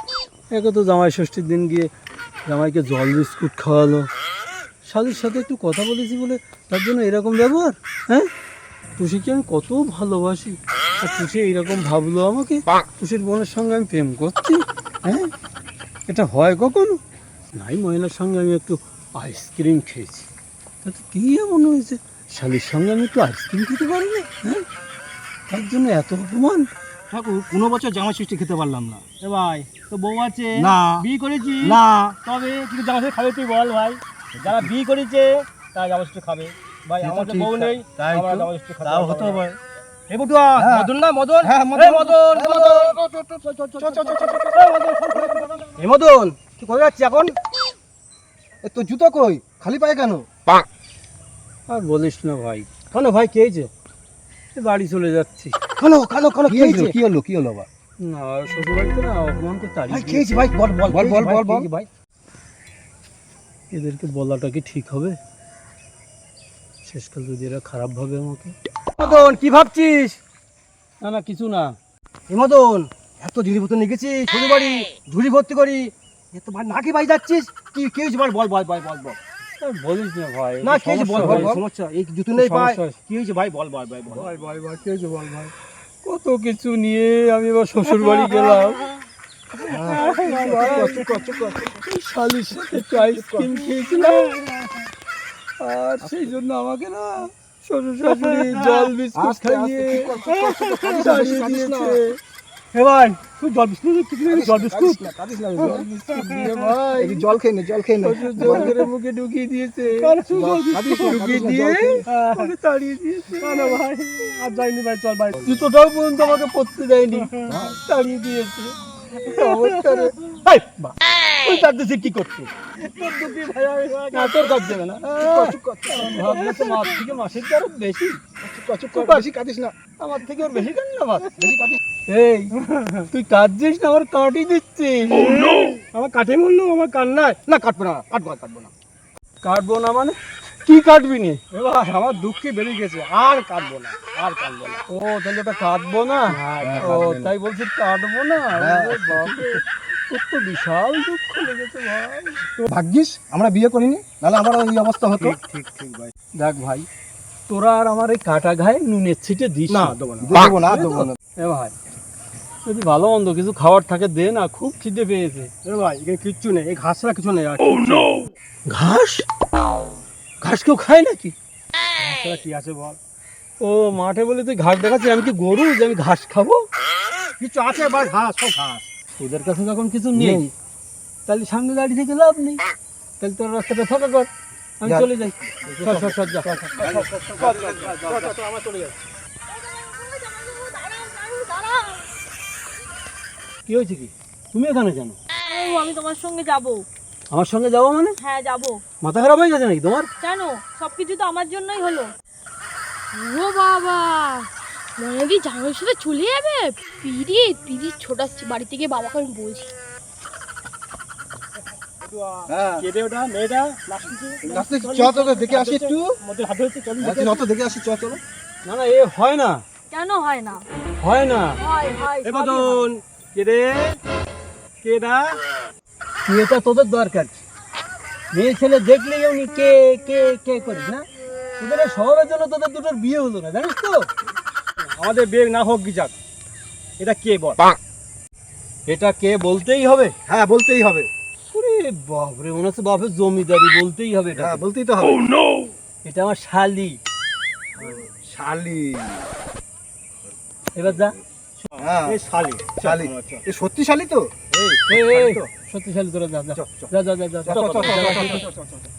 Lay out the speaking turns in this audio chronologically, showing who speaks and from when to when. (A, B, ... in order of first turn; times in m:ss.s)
0:00.5-0:01.9 A
0:02.5-0:04.1 A
0:04.8-0:08.3 A
0:09.0-0:15.3 A
0:16.1-0:17.0 A
0:17.5-0:20.3 A
0:20.8-0:24.6 A
0:25.5-0:26.7 A
0:27.1-0:39.6 B
0:28.5-0:29.0 C
0:30.6-0:31.1 C
0:31.6-0:32.1 C
0:34.4-0:34.7 C
0:37.0-0:39.5 C
0:40.1-0:47.4 B
0:40.6-0:45.6 C
0:48.6-0:50.1 C
0:48.8-0:50.3 B
0:51.7-0:52.7 A
0:52.9-0:53.7 B
0:54.6-0:55.6 A
0:55.8-0:57.7 B
0:56.4-0:57.6 C
0:58.0-1:00.3 A
0:59.9-1:01.9 B
1:00.8-1:01.7 C
1:03.7-1:05.2 A
1:06.8-1:08.6 A
1:09.0-1:10.2 B
1:11.0-1:11.8 A
1:12.3-1:19.2 B
1:19.6-1:21.6 A
1:20.6-1:24.3 B
1:21.2-1:21.6 C
1:22.4-1:23.0 A
1:24.7-1:25.2 A
1:26.0-1:28.9 A
1:29.7-1:31.8 B
1:29.7-1:31.0 C
1:29.9-1:31.1 A
1:31.6-1:34.4 A
1:34.0-1:34.6 B
1:35.6-1:40.2 A
1:36.0-1:36.3 C
1:38.4-1:38.9 B
1:39.1-1:42.0 C
1:40.2-1:41.2 B
1:40.8-1:42.2 A
1:42.7-1:45.0 B
1:44.2-1:48.8 C
1:45.6-1:47.3 B
1:45.6-1:46.8 A
1:48.0-1:53.8 A
1:48.5-1:48.9 B
1:50.0-1:51.5 B
1:50.3-1:52.0 C
1:52.1-1:52.5 B
1:53.4-1:55.6 B
1:55.4-2:02.5 A
2:02.8-2:05.0 B
2:04.1-2:08.2 A
2:05.2-2:05.9 C
2:05.9-2:06.8 B
2:08.4-2:09.7 B
2:08.9-2:09.3 A
2:09.2-2:09.7 C
2:10.0-2:11.5 A
2:11.4-2:11.8 C
2:12.1-2:12.6 A
2:12.6-2:13.0 B
2:13.1-2:15.4 A
2:15.2-2:18.7 B
2:19.4-2:21.6 A
2:21.6-2:24.8 B
2:24.9-2:32.4 A
2:26.5-2:27.3 C
2:28.6-2:29.6 C
2:32.7-2:35.4 C
2:35.2-2:36.1 B
2:36.4-2:36.9 A
2:37.5-2:41.7 A
2:39.7-2:40.5 B
2:40.2-2:41.1 C
2:42.6-2:45.5 A
2:45.6-2:48.3 B
2:48.7-2:49.3 A
2:50.4-2:51.4 A
2:52.0-2:53.0 B
2:53.6-2:56.7 A
2:57.4-2:58.9 B
2:59.2-3:00.5 A
3:00.2-3:00.5 B
3:01.3-3:02.6 A
3:03.2-3:04.3 A
3:04.8-3:06.6 A
3:05.8-3:08.9 B
3:09.6-3:12.1 D
3:13.7-3:15.2 A
3:15.4-3:16.9 D
3:17.3-3:18.2 A
3:18.2-3:18.8 D
3:19.0-3:20.1 A
3:20.2-3:22.1 D
3:23.2-3:29.7 D
3:32.0-3:37.5 B
3:32.5-3:32.9 C
3:34.4-3:36.2 C
3:37.0-3:38.2 C
3:38.6-3:39.6 A
3:39.9-3:40.7 D
3:41.0-3:41.6 A
3:41.6-3:42.9 D
3:42.2-3:44.0 B
3:44.8-3:45.4 B
3:46.3-3:47.4 A
3:48.3-3:51.0 A
3:51.6-3:54.1 A
3:54.8-3:56.2 B
3:57.0-3:57.6 B
3:58.9-4:00.1 A
4:00.3-4:01.1 C
4:01.5-4:04.6 A
4:04.4-4:05.3 C
4:06.0-4:07.0 A
4:07.8-4:08.2 B
4:08.1-4:09.3 C
4:10.8-4:11.7 A
4:11.8-4:13.5 B
4:11.8-4:12.2 C
4:12.8-4:14.3 C
4:14.5-4:15.5 B
4:14.9-4:18.5 A
4:16.6-4:16.9 B
4:17.5-4:18.5 C
4:17.5-4:18.8 B